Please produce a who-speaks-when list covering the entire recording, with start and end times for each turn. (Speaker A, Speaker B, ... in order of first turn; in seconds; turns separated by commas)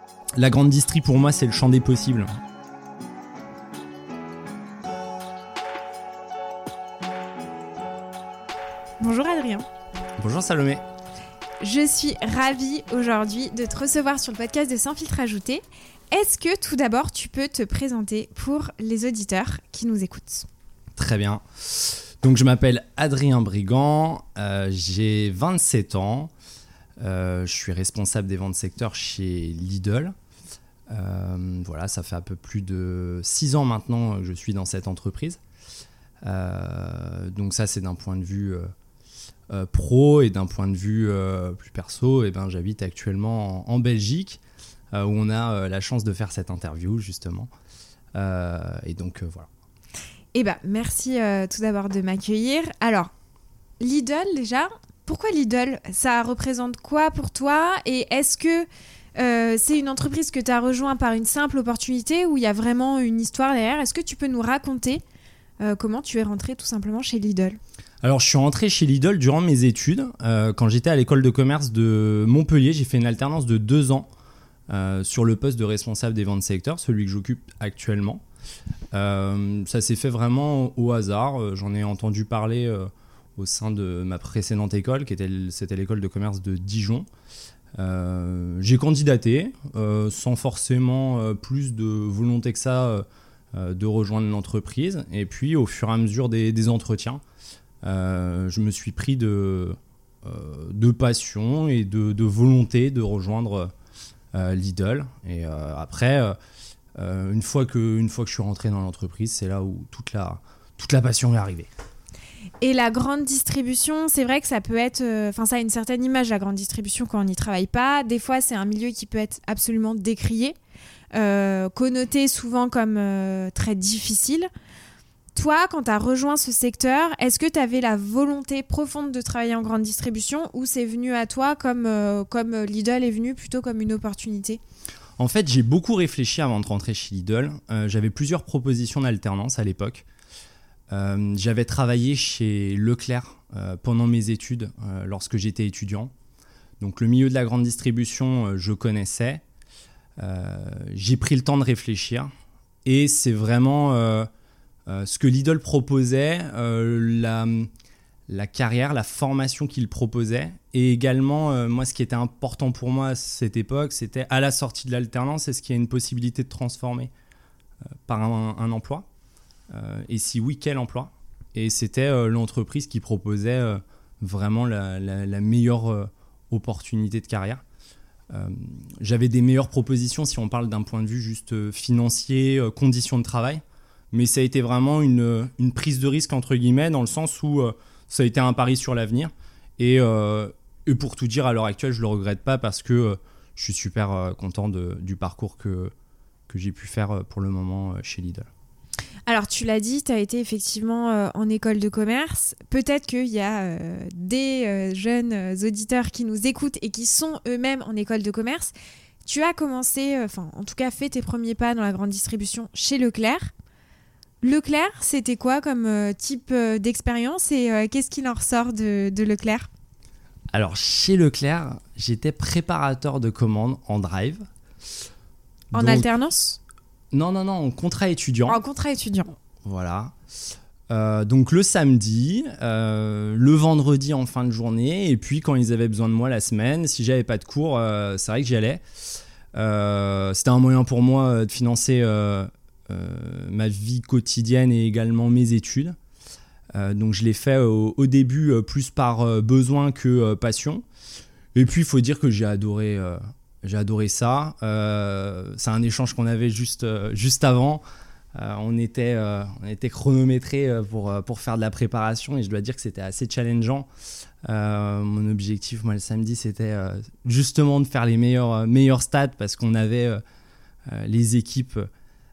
Speaker A: 0.4-2.3, Speaker B: 9.0-9.7, Speaker A: 10.2-10.8, Speaker B: 11.6-20.5, Speaker A: 21.0-26.3, Speaker A: 27.0-30.1, Speaker A: 30.9-35.4, Speaker A: 36.2-38.7, Speaker A: 39.5-44.4, Speaker A: 44.9-47.5, Speaker A: 48.1-49.5, Speaker B: 50.3-53.1, Speaker B: 53.8-65.0, Speaker B: 65.6-67.6, Speaker A: 68.0-74.1, Speaker A: 74.7-78.2, Speaker A: 78.9-87.1, Speaker A: 87.8-97.2, Speaker A: 97.8-103.7, Speaker A: 104.3-106.3, Speaker A: 107.0-111.7, Speaker B: 112.6-120.6, Speaker B: 121.1-124.5, Speaker B: 125.3-134.6, Speaker A: 135.2-140.1, Speaker A: 140.9-146.1, Speaker A: 146.8-149.4, Speaker A: 150.2-152.3, Speaker A: 152.8-154.3, Speaker A: 154.9-157.7, Speaker A: 158.3-167.1, Speaker A: 168.1-169.1, Speaker A: 169.7-177.6, Speaker A: 178.3-195.9, Speaker A: 196.5-198.5, Speaker B: 199.3-208.7, Speaker B: 209.2-213.5, Speaker B: 214.4-219.7, Speaker A: 220.5-224.4, Speaker A: 225.7-226.1, Speaker B: 225.7-226.6, Speaker A: 227.1-228.6, Speaker B: 228.5-229.3, Speaker A: 229.6-230.1, Speaker A: 230.9-238.8, Speaker A: 239.5-246.0, Speaker A: 246.8-250.8, Speaker A: 251.6-257.8, Speaker A: 258.4-263.9, Speaker A: 264.4-270.2, Speaker A: 270.9-271.9